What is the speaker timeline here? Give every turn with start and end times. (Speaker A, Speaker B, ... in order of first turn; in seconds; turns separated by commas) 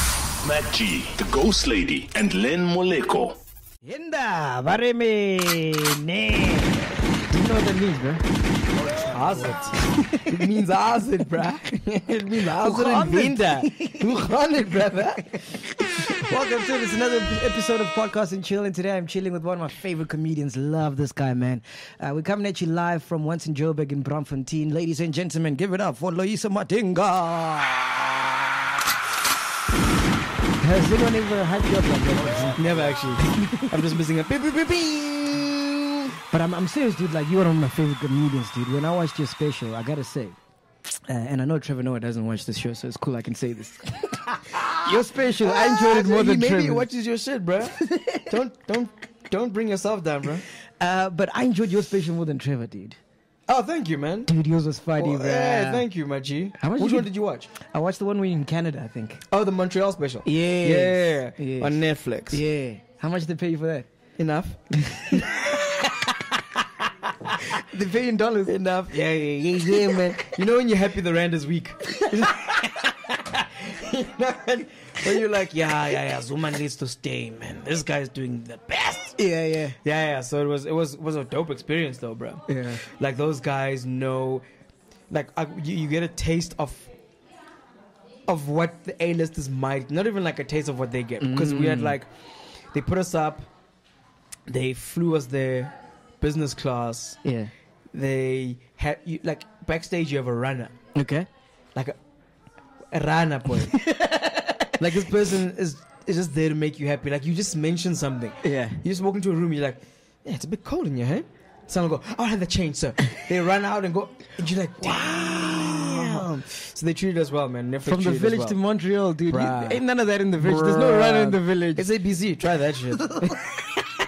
Speaker A: 0.4-3.4, Speaker B: 3.8-8.2, Speaker C: 8.9-16.2, Speaker B: 9.8-10.5, Speaker B: 12.6-14.3, Speaker B: 14.9-28.5, Speaker B: 30.6-33.9, Speaker C: 32.6-35.9, Speaker B: 36.2-40.4, Speaker B: 41.1-46.9, Speaker C: 44.7-50.4, Speaker B: 47.8-48.3, Speaker B: 50.8-53.0, Speaker C: 53.5-54.3, Speaker B: 54.3-55.9, Speaker C: 55.0-57.5, Speaker B: 56.6-59.2, Speaker C: 59.3-62.4, Speaker B: 60.2-63.9, Speaker C: 64.2-65.7, Speaker B: 64.8-66.1, Speaker B: 67.5-68.6, Speaker C: 68.5-79.2, Speaker B: 79.2-79.8, Speaker C: 79.8-84.4, Speaker B: 82.5-82.8, Speaker C: 85.1-86.9, Speaker C: 88.3-93.5, Speaker B: 91.2-92.0, Speaker C: 94.5-97.2, Speaker B: 97.2-97.5, Speaker C: 97.9-100.8, Speaker B: 100.9-101.3, Speaker C: 102.9-103.8, Speaker B: 103.7-104.8, Speaker C: 104.8-118.6, Speaker B: 108.4-108.8, Speaker B: 114.8-116.2, Speaker B: 117.9-121.9, Speaker C: 119.3-119.8, Speaker C: 120.4-123.4, Speaker B: 123.1-123.5